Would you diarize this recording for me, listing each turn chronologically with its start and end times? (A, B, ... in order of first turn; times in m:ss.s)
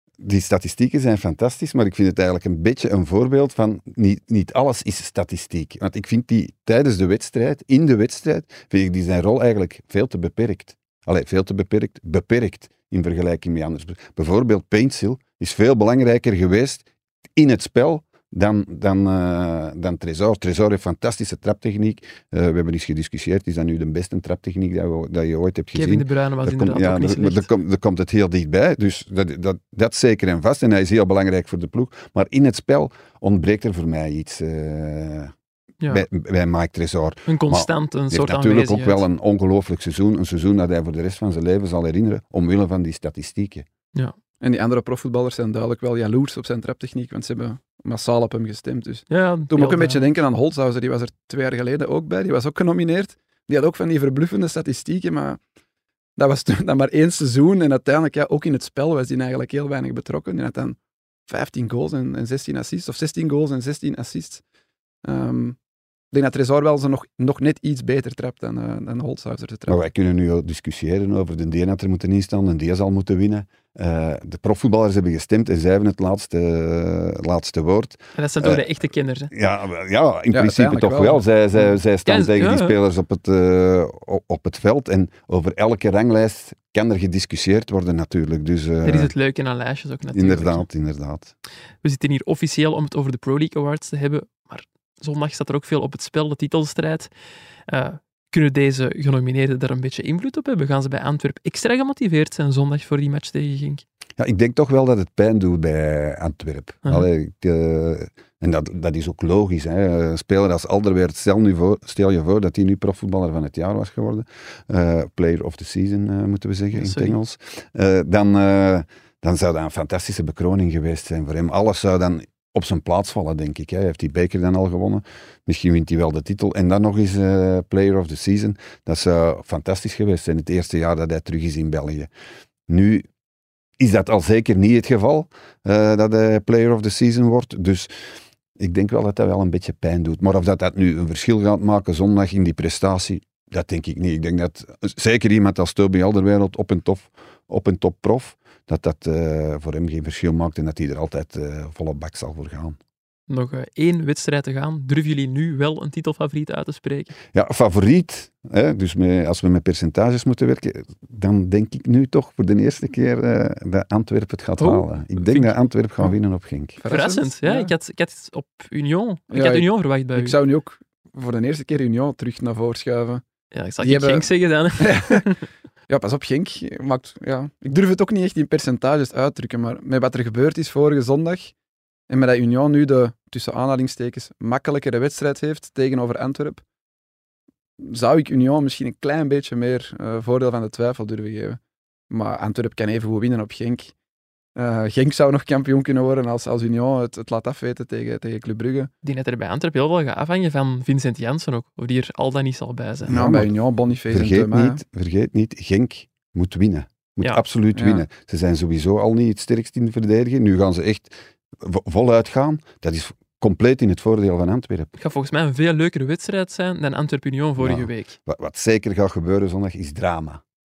0:00.2-0:35.3 A
0:25.7-0:27.5 B
0:35.9-0:43.7 A
0:37.3-0:39.0 B
0:44.4-0:55.4 C
0:49.1-0:50.0 B
0:56.2-1:00.8 C
1:01.3-1:04.4 C
1:05.0-1:05.6 C
1:06.1-1:09.8 C
1:09.7-1:18.7 A
1:18.2-1:19.3 B
1:19.3-1:29.1 A
1:20.3-1:21.2 C
1:22.0-1:22.8 B
1:28.8-1:30.7 B
1:30.1-1:31.3 A
1:31.8-1:37.1 B
1:37.7-1:43.8 B
1:44.2-2:12.1 A
1:56.7-1:57.2 B
2:12.7-2:13.1 A
2:13.8-2:17.9 A
2:18.6-2:32.8 A
2:33.3-2:37.1 B
2:37.3-2:46.8 A
2:44.6-2:45.5 B
2:46.8-2:47.7 C
2:46.8-2:50.4 B
2:49.3-2:53.2 C
2:53.5-2:55.4 B
2:53.8-2:54.3 C
2:54.8-2:55.2 C
2:55.9-3:01.5 C
3:02.1-3:06.6 C
3:07.8-3:13.9 C
3:14.6-3:18.9 C
3:19.0-3:23.2 B
3:23.1-3:23.5 A
3:23.1-3:24.8 C
3:24.1-3:34.9 A
3:27.7-3:28.0 C
3:35.0-3:38.2 B
3:37.6-3:40.4 A